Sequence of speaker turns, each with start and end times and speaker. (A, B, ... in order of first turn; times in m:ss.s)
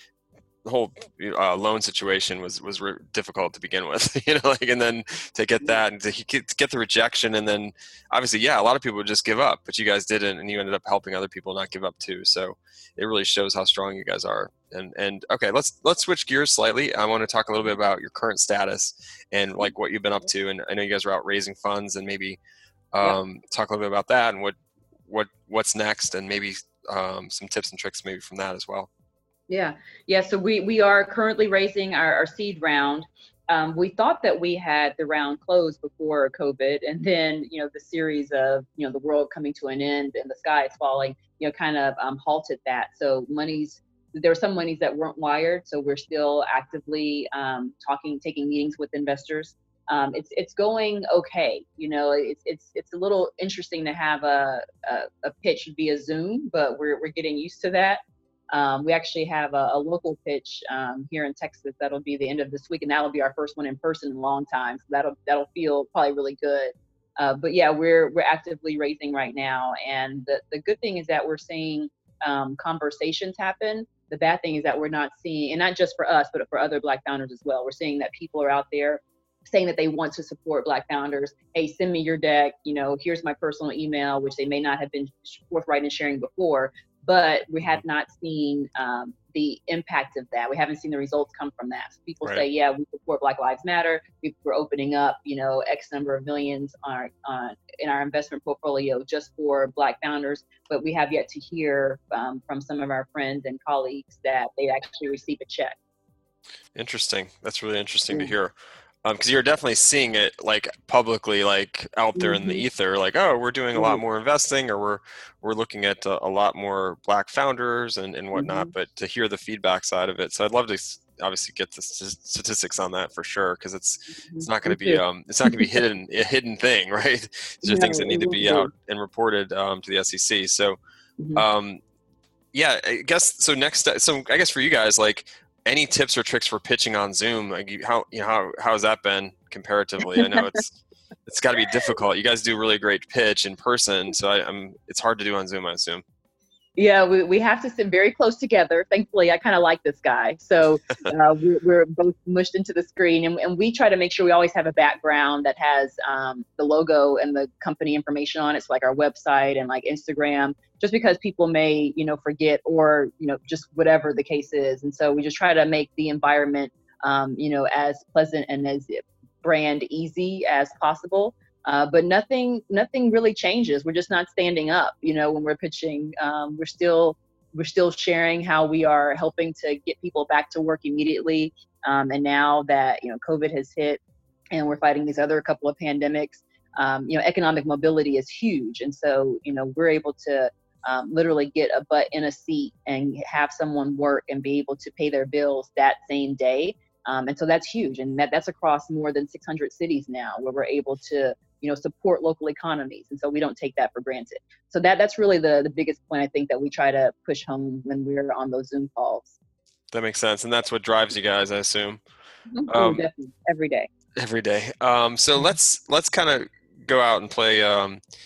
0:00.6-0:22.4 A
0:22.9-0:24.6 A
0:25.1-0:28.9 A
0:29.5-1:45.8 B
1:46.7-2:10.8 A
1:52.2-1:52.6 B
1:53.7-1:54.0 B
1:58.3-1:58.7 B
2:04.1-2:05.7 B
2:07.6-2:08.7 B
2:11.3-2:11.8 A
2:12.5-2:20.7 A
2:20.2-2:20.6 B
2:21.2-2:26.0 A
2:26.8-3:04.0 B
3:04.5-3:29.4 B
3:29.9-3:32.0 A
3:32.5-3:33.9 B
3:32.7-3:33.0 A
3:34.2-3:38.0 A